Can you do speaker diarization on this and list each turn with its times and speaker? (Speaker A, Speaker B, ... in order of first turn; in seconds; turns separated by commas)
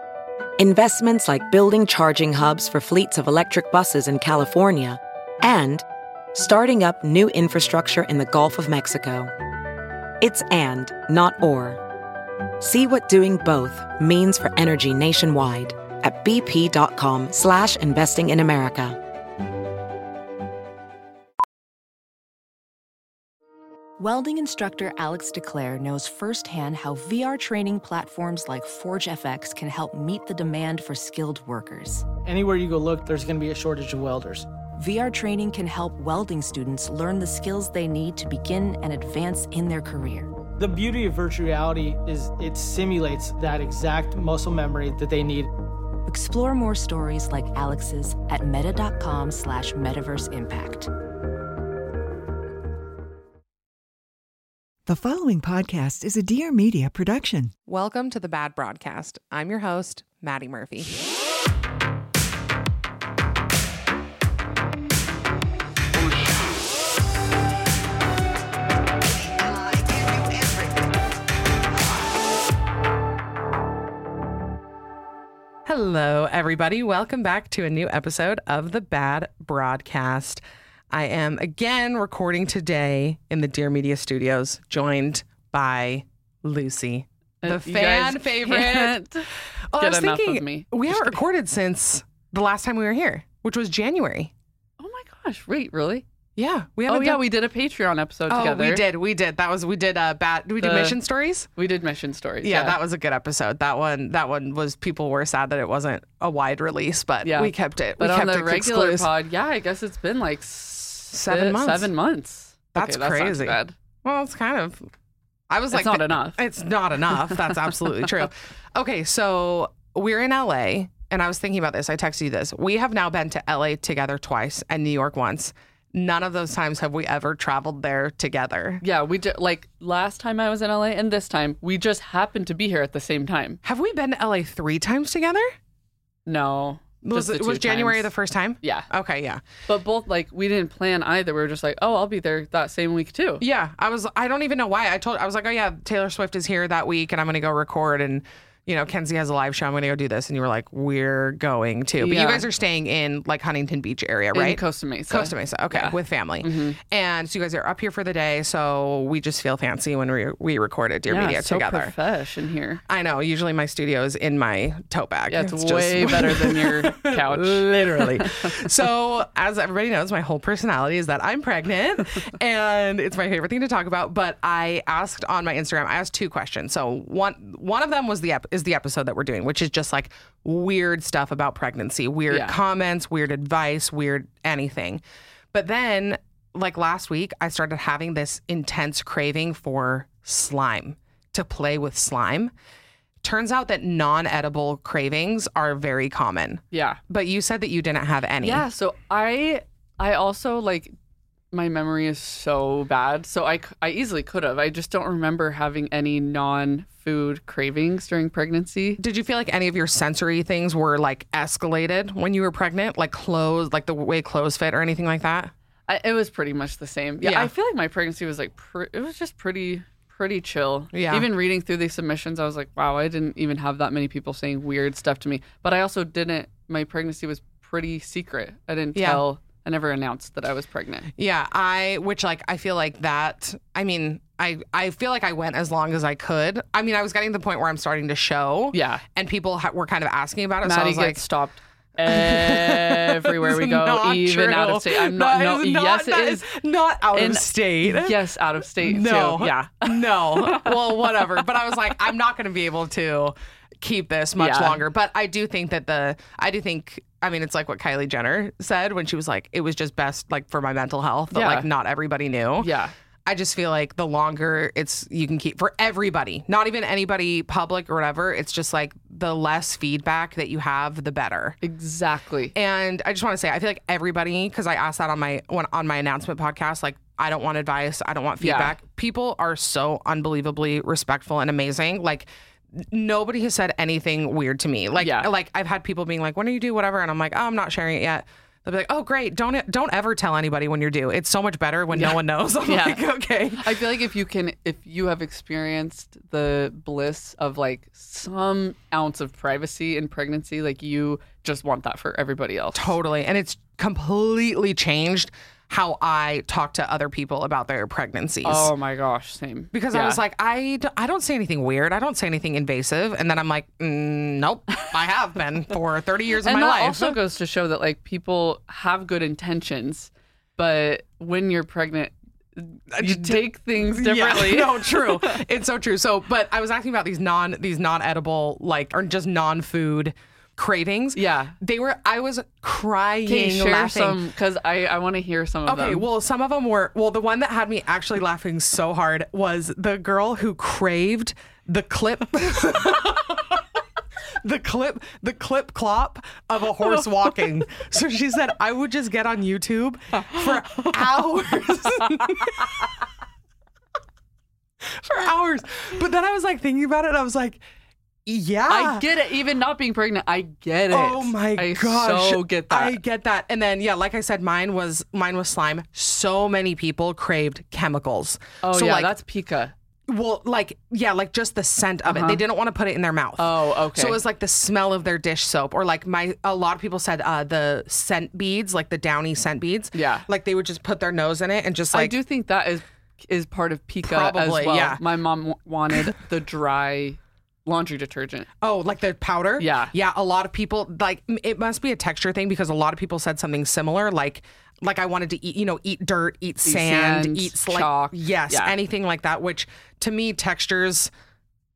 Speaker A: 0.6-9.3, Speaker A: 10.2-11.8, Speaker A: 12.6-19.0, Speaker B: 24.0-32.1, Speaker C: 32.2-34.5, Speaker B: 34.8-40.3, Speaker C: 40.6-45.5, Speaker B: 46.0-50.9, Speaker D: 54.9-57.5, Speaker E: 57.6-60.9, Speaker E: 75.7-89.0, Speaker F: 87.4-91.2, Speaker E: 89.7-94.3, Speaker F: 94.8-96.0, Speaker E: 96.3-97.2, Speaker F: 96.9-98.8, Speaker E: 98.3-101.5, Speaker F: 100.6-101.0, Speaker F: 101.5-102.8, Speaker E: 102.4-109.1, Speaker F: 107.2-113.7, Speaker E: 111.1-111.9, Speaker E: 112.7-114.9, Speaker E: 115.5-128.8, Speaker F: 115.7-116.4, Speaker F: 128.8-133.6, Speaker E: 133.6-135.5, Speaker F: 136.3-138.1, Speaker E: 137.0-139.4, Speaker F: 138.6-138.9, Speaker F: 139.7-143.4, Speaker E: 143.4-161.9, Speaker F: 152.0-152.5, Speaker F: 154.3-156.8, Speaker F: 161.1-162.8, Speaker E: 162.9-192.5, Speaker F: 165.3-168.6, Speaker F: 182.3-182.6, Speaker E: 193.2-198.6, Speaker F: 196.7-197.0, Speaker F: 198.4-200.9, Speaker F: 201.5-209.0, Speaker E: 209.0-215.5, Speaker F: 215.9-231.1, Speaker E: 217.2-217.5, Speaker E: 220.9-221.3, Speaker E: 228.9-229.2, Speaker E: 231.2-241.2, Speaker F: 238.7-239.0, Speaker F: 240.6-246.5, Speaker E: 242.1-248.2, Speaker F: 247.1-251.4, Speaker E: 248.8-262.7, Speaker F: 254.4-254.8, Speaker F: 261.3-261.7, Speaker F: 262.6-262.9, Speaker E: 263.2-271.6, Speaker F: 271.6-272.5, Speaker E: 272.5-293.7, Speaker F: 278.4-278.8, Speaker F: 285.0-285.3, Speaker F: 291.9-302.9, Speaker E: 302.7-308.7, Speaker F: 308.4-310.2, Speaker E: 309.7-317.2, Speaker F: 316.4-325.4, Speaker E: 322.9-334.2, Speaker F: 331.1-331.5, Speaker F: 333.2-336.1, Speaker E: 335.7-343.6, Speaker E: 344.4-353.0, Speaker E: 354.8-357.6, Speaker E: 358.2-359.0, Speaker F: 358.7-363.0, Speaker E: 360.9-369.1, Speaker F: 368.6-369.7, Speaker E: 370.1-382.2, Speaker F: 372.1-372.4, Speaker F: 373.4-374.2, Speaker F: 379.9-380.2, Speaker F: 381.9-388.5, Speaker E: 384.0-385.0, Speaker E: 388.6-401.1, Speaker F: 389.6-389.9, Speaker F: 396.6-398.8